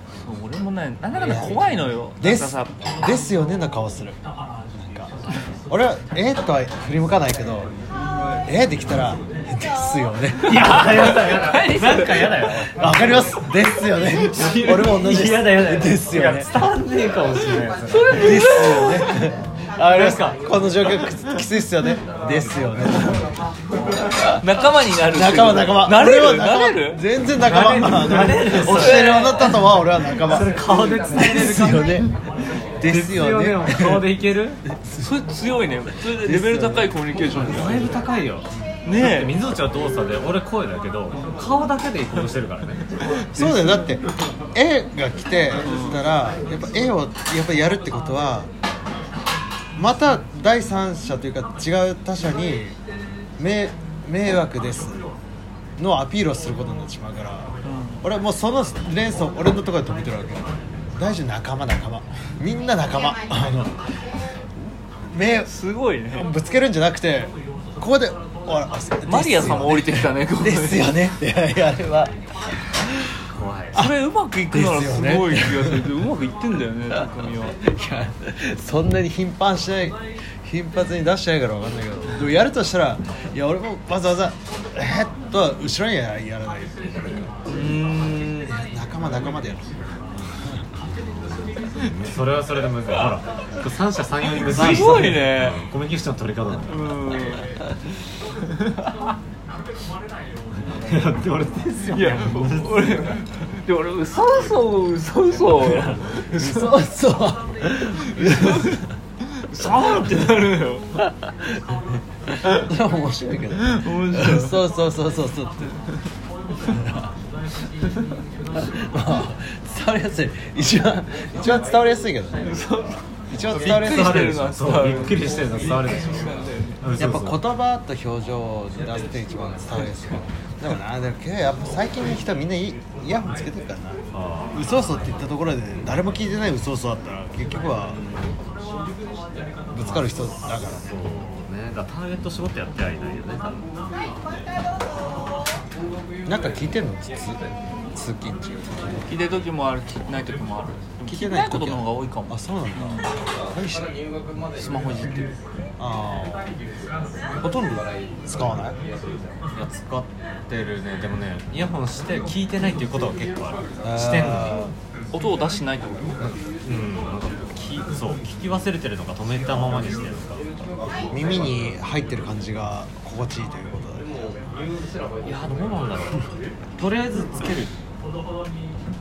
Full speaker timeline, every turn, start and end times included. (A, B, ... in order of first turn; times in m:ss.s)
0:00.2-0:02.7 A
0:01.2-0:04.2 B
0:04.8-0:05.1 B
0:05.7-0:07.7 B
0:08.5-0:10.8 B
0:10.4-0:12.9 C
0:10.5-0:12.7 A
0:12.8-0:16.5 B
0:14.0-0:18.4 C
0:17.8-0:19.3 A
0:18.1-0:23.3 B
0:19.9-0:20.4 C
0:24.4-0:27.0 A
0:25.1-0:30.5 B
0:27.4-0:29.4 C
0:28.2-0:29.7 A
0:30.2-0:32.0 C
0:31.1-0:32.1 B
0:32.8-0:34.1 B
0:32.8-0:34.6 C
0:34.8-0:35.1 B
0:35.0-0:38.0 A
0:36.1-0:37.0 B
0:37.3-0:42.9 C
0:38.8-0:39.3 A
0:43.2-0:43.8 A
0:43.3-0:44.0 B
0:44.5-0:48.5 B
0:45.6-0:46.0 A
0:49.8-0:52.8 B
0:53.4-0:55.0 B
0:55.8-0:57.5 B
0:57.6-0:58.0 A
0:58.0-1:03.8 B
1:05.1-1:05.5 B
1:05.5-1:06.3 A
1:06.1-1:12.1 B
1:09.1-1:10.9 A
1:12.8-1:13.1 B
1:13.3-1:13.8 C
1:13.7-1:17.6 A
1:14.5-1:16.0 B
1:17.6-1:27.3 B
1:27.5-1:28.5 A
1:28.5-1:29.7 B
1:31.8-1:36.8 C
1:34.4-1:35.6 A
1:36.7-1:37.5 A
1:40.8-1:43.0 C
1:41.9-1:46.7 A
1:46.3-1:48.8 B
1:48.1-1:48.8 A
1:49.4-1:50.9 A
1:52.5-1:55.7 B
1:53.6-1:54.6 A
1:56.7-1:57.1 B
1:58.6-2:02.5 B
2:02.4-2:06.8 A
2:03.3-2:04.3 B
2:03.5-2:07.4 C
2:07.0-2:14.0 B
2:14.1-2:14.6 C
2:14.5-2:18.0 B
2:18.0-2:18.3 C
2:19.7-2:20.9 B
2:19.8-2:23.6 C
2:26.3-2:27.4 B
2:27.9-2:29.1 B
2:29.1-2:33.1 A
2:31.1-2:33.9 B
2:34.6-2:35.4 A
2:35.8-2:36.5 B
2:37.4-2:38.8 B
2:39.6-2:44.7 C
2:43.8-2:44.7 B
2:45.1-2:46.2 A
2:46.6-2:50.7 C
2:51.1-2:54.4 B
2:55.2-2:56.3 C
2:56.8-2:57.7 C